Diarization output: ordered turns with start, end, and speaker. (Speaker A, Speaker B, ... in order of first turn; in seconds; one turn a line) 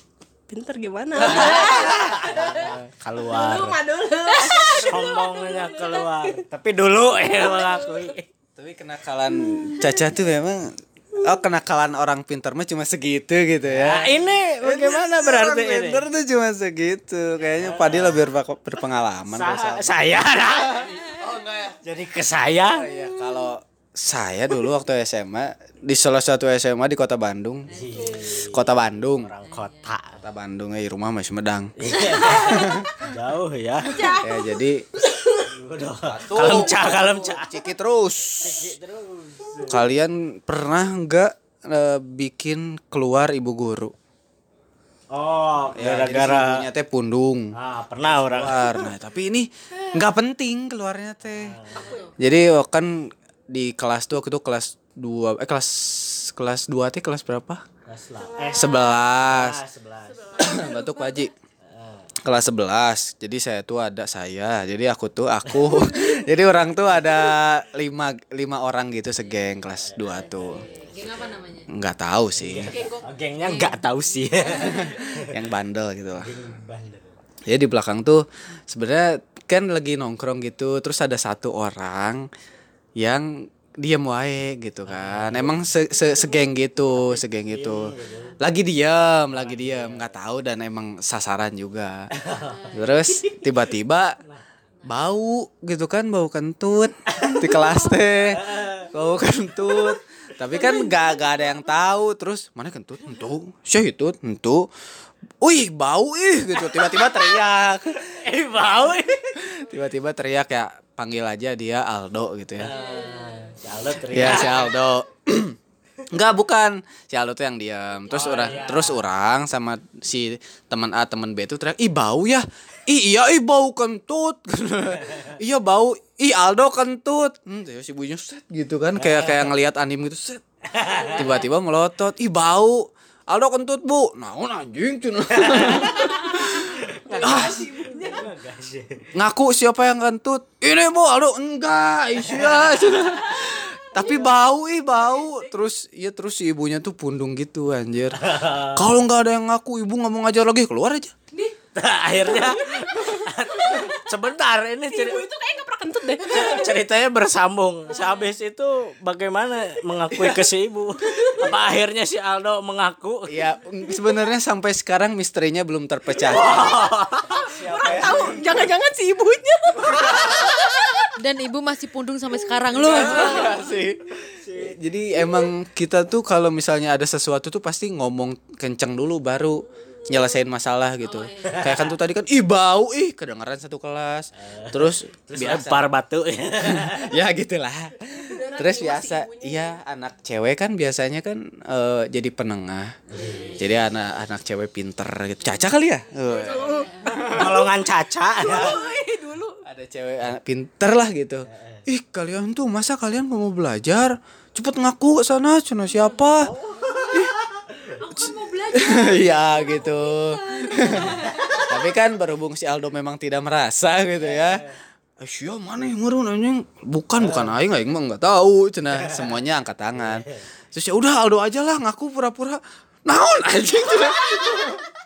Speaker A: 0.5-6.4
Speaker B: 1.2-3.8
Speaker C: 1.2-2.0
Speaker D: 4.3-5.0
Speaker B: 4.4-8.2
Speaker A: 7.2-8.1
Speaker C: 8.6-21.8
Speaker B: 13.7-16.0
Speaker B: 17.6-18.3
Speaker B: 19.3-21.0
Speaker B: 21.8-22.9
Speaker C: 22.7-27.7
Speaker B: 27.7-30.2
Speaker D: 27.7-28.2
Speaker C: 28.3-29.3
Speaker D: 29.4-29.9
Speaker C: 30.2-32.9
Speaker B: 31.8-34.1
Speaker A: 33.9-34.2
Speaker C: 34.2-34.9
Speaker B: 35.4-37.6
Speaker C: 36.0-38.7
Speaker B: 38.4-39.8
Speaker C: 39.6-43.9
Speaker B: 45.1-46.6
Speaker C: 45.7-47.5
Speaker B: 47.5-48.9
Speaker C: 48.0-51.6
Speaker B: 51.4-51.9
Speaker A: 51.8-52.1
Speaker C: 52.2-57.6
Speaker B: 57.9-60.3
Speaker A: 58.4-58.8
Speaker C: 58.5-59.6
Speaker A: 60.1-61.1
Speaker C: 60.4-61.3
Speaker B: 61.7-62.1
Speaker C: 62.2-70.6
Speaker B: 65.4-65.8
Speaker B: 69.8-71.1
Speaker D: 70.5-71.7
Speaker C: 71.7-72.7
Speaker B: 72.4-75.5
Speaker A: 72.7-73.0
Speaker D: 73.4-73.8
Speaker C: 74.7-76.3
Speaker B: 76.2-77.0
Speaker C: 77.5-82.2
Speaker C: 83.0-92.1
Speaker B: 84.8-85.5
Speaker B: 87.1-88.4
Speaker B: 89.3-90.1
Speaker B: 92.2-92.7
Speaker D: 92.5-92.8
Speaker C: 92.7-94.2
Speaker C: 94.8-104.7
Speaker B: 97.1-97.5
Speaker B: 98.3-98.9
Speaker C: 105.4-108.0
Speaker B: 106.6-107.4
Speaker B: 107.9-109.5
Speaker C: 109.5-112.7
Speaker B: 112.6-114.7
Speaker D: 112.7-113.5
Speaker C: 114.0-115.6
Speaker C: 116.1-130.4
Speaker B: 118.1-119.0
Speaker B: 129.0-129.5
Speaker B: 130.7-131.3
Speaker C: 131.1-136.7
Speaker B: 135.4-136.5
Speaker A: 137.1-138.2
Speaker B: 137.1-139.1
Speaker C: 137.2-137.7
Speaker C: 139.1-151.1
Speaker B: 142.3-143.1
Speaker B: 148.2-148.8
Speaker B: 151.7-155.2
Speaker A: 152.2-154.0
Speaker A: 154.9-156.8
Speaker B: 156.3-163.4
Speaker C: 160.1-160.4
Speaker A: 161.1-161.5
Speaker C: 163.3-166.8
Speaker B: 166.2-168.4
Speaker A: 167.4-171.1
Speaker C: 167.5-168.7
Speaker B: 169.8-170.5
Speaker C: 170.0-170.5
Speaker D: 171.2-173.6
Speaker C: 172.7-185.9
Speaker A: 172.8-173.7
Speaker B: 174.2-174.8
Speaker D: 181.1-181.6
Speaker B: 181.4-181.9
Speaker B: 184.4-187.2
Speaker C: 186.6-192.9
Speaker A: 188.1-189.7
Speaker B: 193.1-193.7
Speaker C: 193.6-197.5
Speaker D: 196.3-197.4
Speaker A: 196.3-197.7
Speaker B: 197.2-198.8
Speaker A: 198.4-199.6
Speaker C: 199.6-206.5
Speaker B: 201.5-201.8
Speaker D: 206.7-207.3
Speaker B: 206.8-208.0
Speaker D: 208.0-211.7
Speaker C: 208.2-214.6
Speaker B: 214.3-214.7
Speaker C: 215.2-224.8
Speaker B: 217.2-217.5
Speaker B: 219.0-219.3
Speaker B: 219.9-220.4